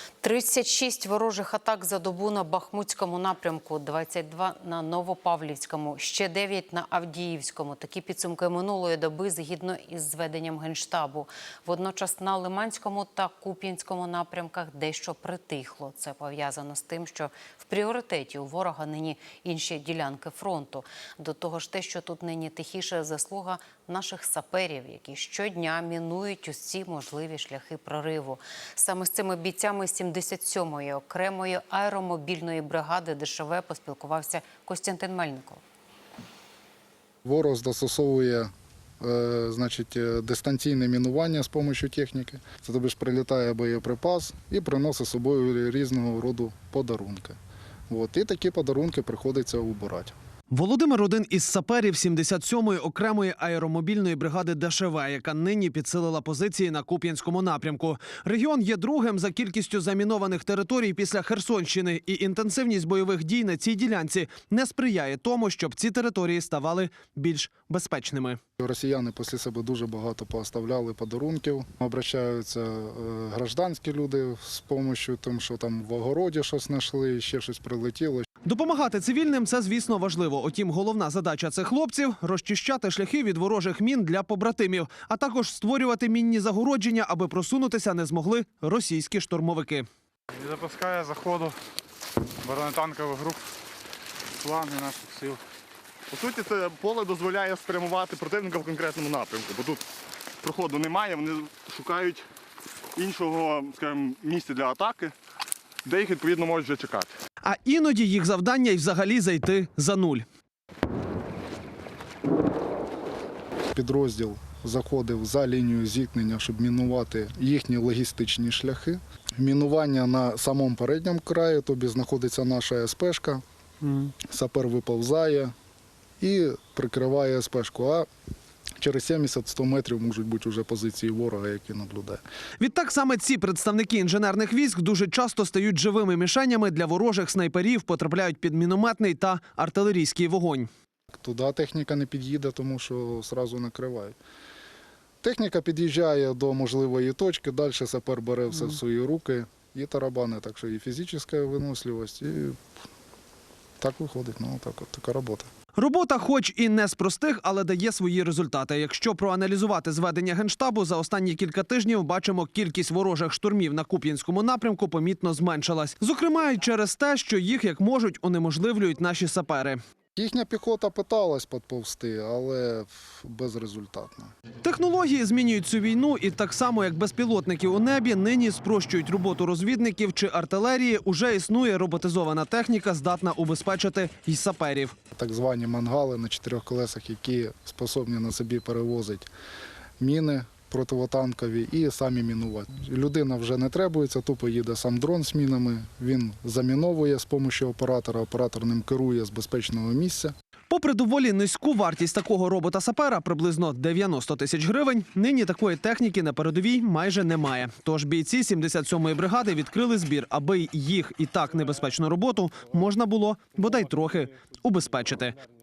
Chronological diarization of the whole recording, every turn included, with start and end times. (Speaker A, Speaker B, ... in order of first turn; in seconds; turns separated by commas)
Speaker A: 0.2-35.6, Speaker B: 37.2-38.5, Speaker B: 39.0-47.4, Speaker B: 47.9-50.1, Speaker C: 50.5-68.4, Speaker B: 68.6-78.3, Speaker C: 78.5-89.9, Speaker D: 90.3-91.6, Speaker D: 92.4-93.5, Speaker D: 94.4-95.4, Speaker E: 96.1-99.9, Speaker E: 100.4-102.2, Speaker E: 103.0-105.2, Speaker E: 105.8-107.2, Speaker C: 107.4-110.2, Speaker B: 113.7-123.4, Speaker B: 124.0-125.5, Speaker B: 126.2-128.1, Speaker B: 128.8-132.2, Speaker C: 132.6-140.7, Speaker B: 141.1-144.2, Speaker B: 145.2-152.6, Speaker B: 153.8-155.5, Speaker C: 155.8-169.8, Speaker B: 170.2-174.3, Speaker C: 174.6-184.9, Speaker B: 185.2-189.3, Speaker B: 190.0-200.3, Speaker C: 200.7-215.4